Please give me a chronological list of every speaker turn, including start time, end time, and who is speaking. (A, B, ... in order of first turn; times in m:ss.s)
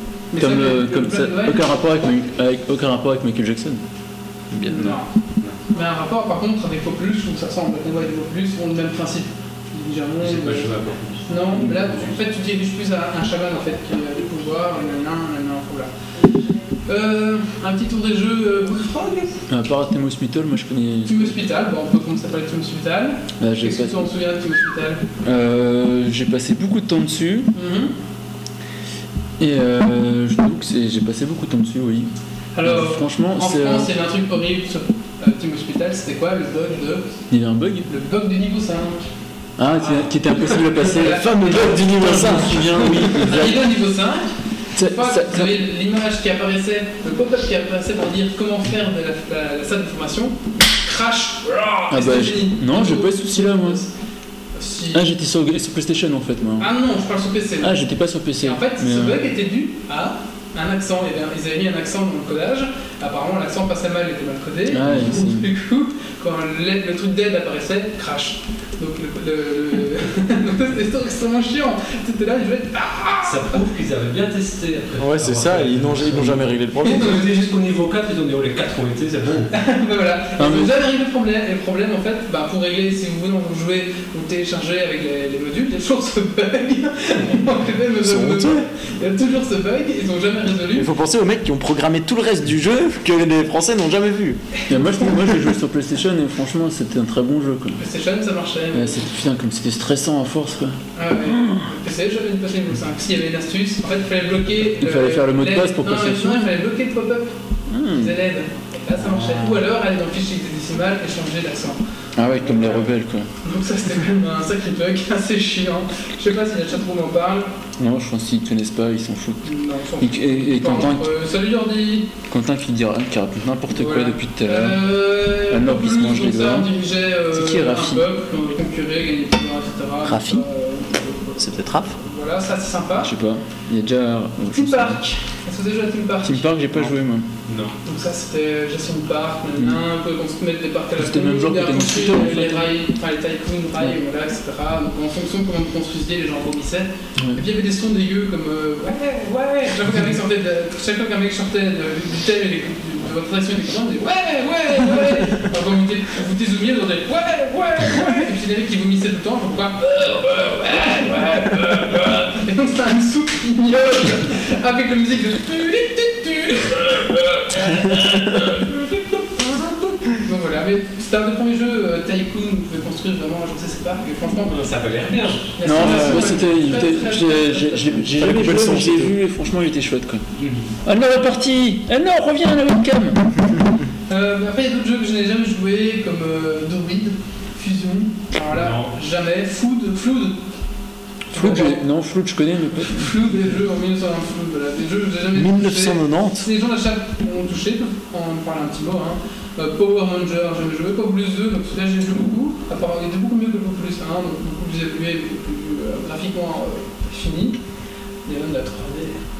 0:00.3-0:01.8 A
0:00.4-0:03.8 B
0:04.6-0:05.0 B
0:04.6-0:05.1 A
0:05.7-0:10.7 A
0:10.2-0:12.2 C
0:11.3-0:15.9 A
0:16.9-0:19.4 A
0:19.5-0:21.4 B
0:21.0-0:25.0 A
0:23.4-0:24.1 B
0:25.2-0:27.5 B
0:27.5-0:27.9 A
0:29.4-0:32.1 B
0:32.5-0:37.2 A
0:32.6-0:33.9 B
0:37.3-0:37.9 B
0:37.9-0:39.1 A
0:39.6-0:43.7 B
0:39.8-0:42.2 A
0:41.0-0:43.3 D
0:42.9-0:53.9 A
0:44.7-0:45.6 B
0:51.9-0:53.8 B
0:54.6-0:55.1 A
0:54.9-0:56.7 B
0:56.6-0:57.8 A
0:57.6-0:59.2 B
0:58.4-1:13.6 A
1:04.7-1:05.5 B
1:13.2-1:19.5 C
1:15.0-1:17.1 D
1:16.9-1:17.2 A
1:19.5-1:30.9 A
1:20.4-1:20.7 B
1:28.0-1:28.6 D
1:30.7-1:34.4 D
1:34.6-1:35.3 A
1:34.7-1:37.8 B
1:37.8-1:39.0 A
1:38.7-1:41.7 B
1:41.0-1:47.3 A
1:44.8-1:46.5 B
1:47.7-1:48.2 B
1:47.9-1:51.8 A
1:49.0-1:49.6 B
1:52.2-1:53.3 B
1:52.4-1:52.9 A
1:53.4-1:57.5 A
1:57.8-1:59.4 B
1:59.4-2:02.1 A
2:00.0-2:01.1 B
2:02.3-2:06.7 B
2:03.7-2:13.1 A
2:07.3-2:08.1 B
2:10.0-2:10.4 D
2:11.4-2:11.9 D
2:13.0-2:15.0 B
2:14.5-2:16.9 A
2:16.2-2:17.3 B
2:17.5-2:17.8 C
2:17.8-2:54.6 A
2:21.0-2:22.7 B
2:27.2-2:27.4 B
2:54.5-2:55.5 C
2:55.5-2:58.0 A
2:55.6-3:00.2 B
2:55.7-2:56.3 D
2:58.0-2:59.1 D
3:00.4-3:00.7 C
3:00.8-3:03.6 B
3:04.1-3:10.4 A
3:08.5-3:08.9 C
3:11.3-3:11.8 A
3:11.3-3:13.1 B
3:12.8-3:27.6 A
3:15.3-3:16.5 D
3:28.2-3:29.2 A